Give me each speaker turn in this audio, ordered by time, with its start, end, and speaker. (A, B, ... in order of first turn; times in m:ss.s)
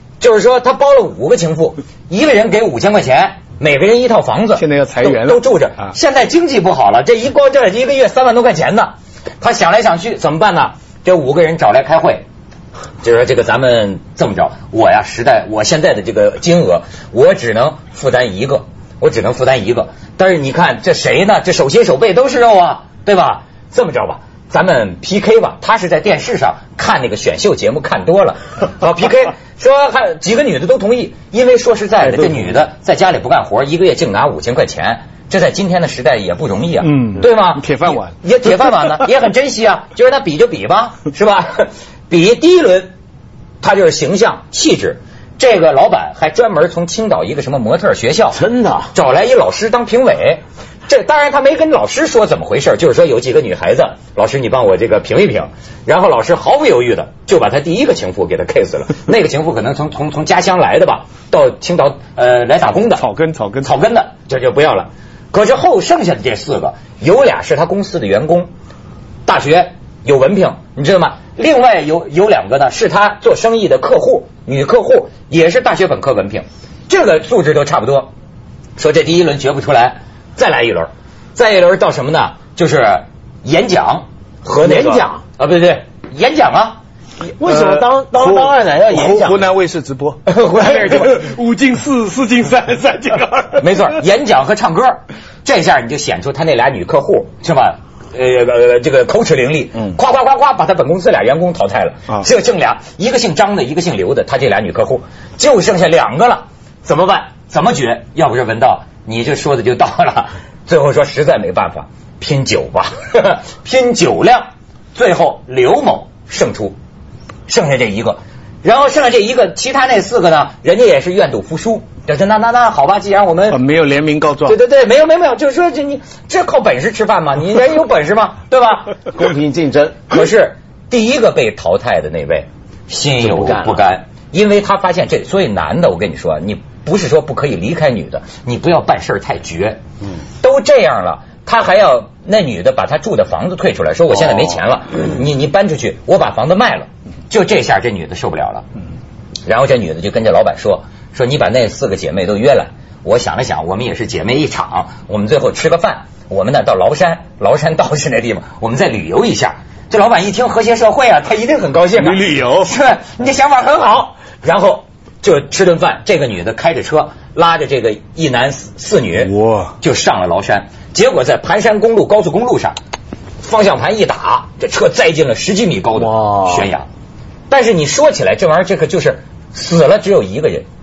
0:00.2-0:12.2 A
0:04.5-0:05.9 B
0:13.0-0:42.9 A
0:36.8-0:38.1 B
0:43.6-0:48.4 A
0:48.3-0:48.9 C
0:48.9-1:03.0 A
1:02.9-1:03.8 B
1:03.6-1:08.5 A
1:09.2-1:18.1 A
1:18.8-1:26.8 A
1:24.6-1:25.2 C
1:27.4-1:29.5 C
1:27.5-1:33.9 B
1:30.2-1:31.2 A
1:33.6-1:56.8 A
1:57.5-2:03.6 A
2:03.5-2:04.6 B
2:04.5-2:09.0 A
2:09.1-2:10.2 C
2:10.1-2:19.8 A
2:13.2-2:13.8 C
2:20.4-2:28.6 A
2:29.5-2:52.8 A
2:42.0-2:42.7 B
2:49.3-2:49.7 B
2:53.4-2:56.9 A
2:56.0-2:56.7 C
2:57.5-3:00.6 A